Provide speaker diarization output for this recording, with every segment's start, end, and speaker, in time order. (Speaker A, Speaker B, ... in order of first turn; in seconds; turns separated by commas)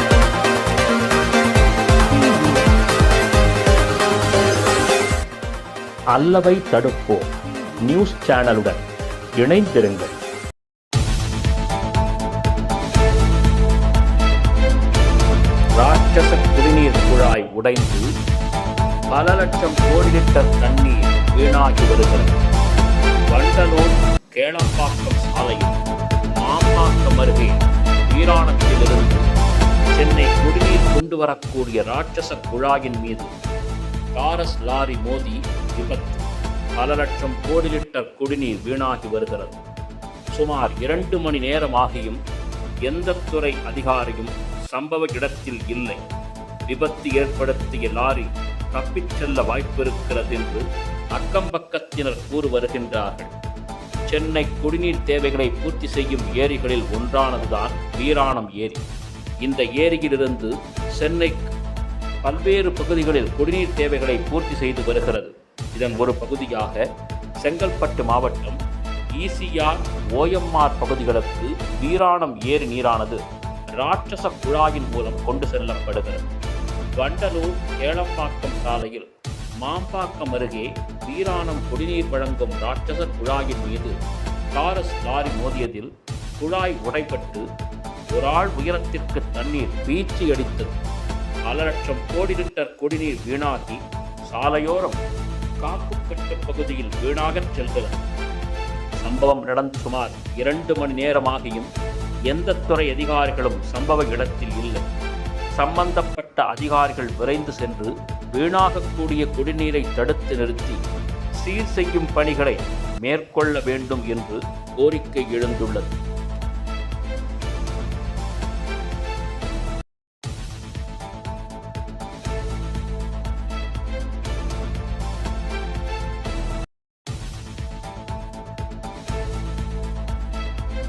Speaker A: 6.1-8.8, Speaker A: 9.4-10.1, Speaker A: 15.8-18.1, Speaker A: 19.1-22.3, Speaker A: 23.3-25.8, Speaker A: 26.4-29.2, Speaker A: 29.9-33.3, Speaker A: 34.1-36.2, Speaker A: 36.8-39.6, Speaker A: 40.3-42.2, Speaker A: 42.9-46.0, Speaker A: 46.7-53.3, Speaker A: 54.1-58.8, Speaker A: 59.4-61.5, Speaker A: 62.2-66.8, Speaker A: 67.4-68.6, Speaker A: 69.2-73.2, Speaker A: 73.8-76.3, Speaker A: 77.0-79.1, Speaker A: 79.6-83.9, Speaker A: 84.5-87.4, Speaker A: 88.1-90.7, Speaker A: 91.5-95.0, Speaker A: 95.6-98.0, Speaker A: 99.0-101.7, Speaker A: 102.3-104.8, Speaker A: 105.6-110.8, Speaker A: 111.4-116.0